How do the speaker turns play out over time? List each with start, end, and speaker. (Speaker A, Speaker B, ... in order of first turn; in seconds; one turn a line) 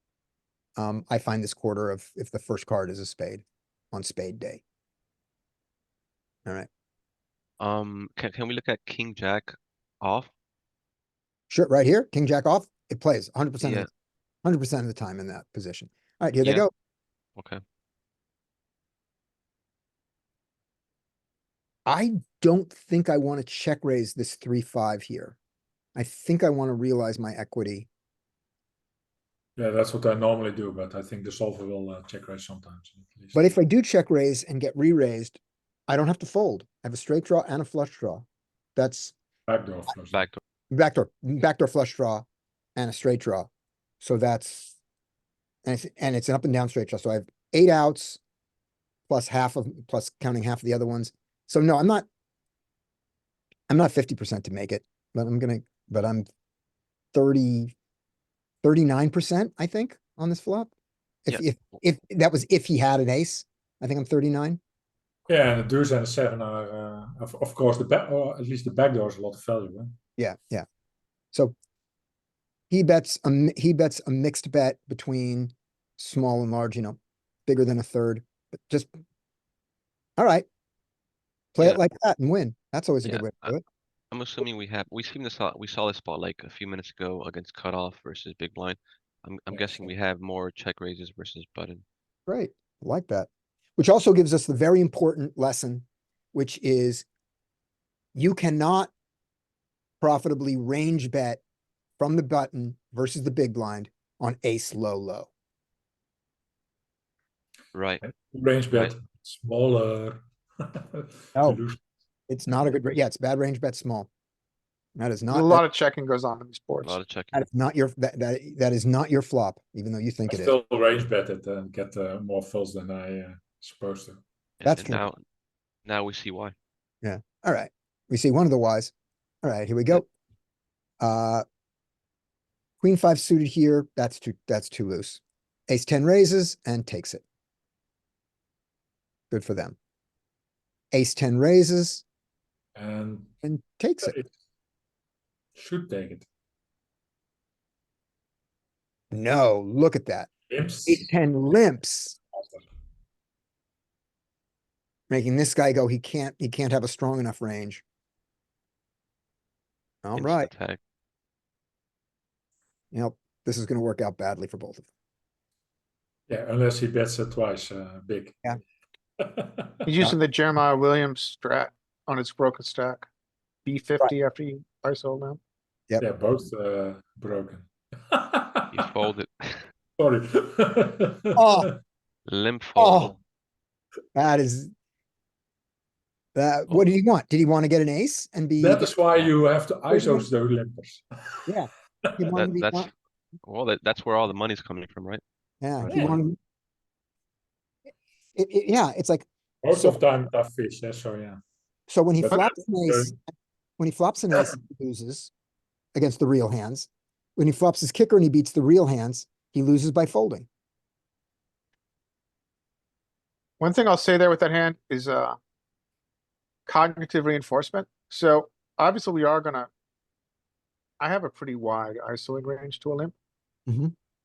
Speaker A: 0.8-4.6
Speaker B: 7.6-10.3
Speaker A: 11.5-13.9
Speaker B: 13.6-13.9
Speaker A: 14.4-16.7
Speaker A: 21.9-25.4
Speaker A: 25.9-27.9
Speaker C: 29.6-33.4
Speaker A: 33.3-38.2
Speaker A: 38.8-39.1
Speaker C: 39.5-40.2
Speaker B: 40.1-40.4
Speaker A: 40.7-42.2
Speaker A: 42.8-43.5
Speaker A: 44.0-44.7
Speaker A: 45.6-48.2
Speaker A: 49.1-52.0
Speaker A: 53.7-56.3
Speaker A: 57.1-57.7
Speaker A: 58.6-60.7
Speaker A: 61.2-64.6
Speaker C: 65.3-69.9
Speaker A: 70.2-70.7
Speaker A: 72.7-78.9
Speaker A: 80.2-80.5
Speaker A: 81.5-83.6
Speaker B: 83.0-83.5
Speaker B: 84.1-91.8
Speaker A: 89.5-89.9
Speaker A: 92.3-97.0
Speaker A: 98.1-98.9
Speaker A: 100.0-101.4
Speaker A: 102.0-105.3
Speaker B: 107.7-108.0
Speaker C: 108.0-111.8
Speaker A: 112.3-114.1
Speaker A: 115.0-115.6
Speaker D: 115.3-117.0
Speaker B: 116.8-117.5
Speaker A: 117.3-120.5
Speaker C: 120.3-124.2
Speaker B: 124.6-125.2
Speaker A: 124.6-125.0
Speaker B: 125.8-126.5
Speaker A: 127.0-128.9
Speaker A: 129.4-130.1
Speaker A: 131.0-131.4
Speaker A: 132.8-137.2
Speaker A: 139.3-139.8
Speaker A: 140.9-142.0
Speaker C: 142.7-143.3
Speaker A: 143.4-144.1
Speaker C: 144.0-144.3
Speaker C: 145.6-146.3
Speaker A: 149.1-150.3
Speaker C: 150.5-151.1
Speaker A: 150.9-152.2
Speaker A: 155.1-157.8
Speaker A: 160.0-160.5
Speaker B: 160.1-160.8
Speaker A: 162.9-164.8
Speaker C: 166.3-168.4
Speaker C: 169.2-169.9
Speaker D: 169.8-173.1
Speaker D: 173.7-175.4
Speaker C: 176.0-178.7
Speaker B: 178.7-179.6
Speaker C: 180.0-181.6
Speaker A: 181.4-181.7
Speaker B: 182.3-183.1
Speaker A: 182.8-183.1
Speaker A: 184.1-184.7
Speaker A: 186.3-188.9
Speaker C: 188.6-191.5
Speaker A: 189.9-190.2
Speaker A: 191.5-192.9
Speaker B: 192.3-192.9
Speaker B: 193.4-195.2
Speaker A: 195.6-196.4
Speaker B: 195.8-196.2
Speaker C: 195.8-196.2
Speaker A: 198.3-200.0
Speaker C: 199.6-201.4
Speaker A: 201.9-205.3
Speaker C: 202.2-203.1
Speaker A: 205.9-210.5
Speaker D: 213.6-215.4
Speaker D: 216.7-219.7
Speaker D: 221.0-223.1
Speaker A: 223.7-223.9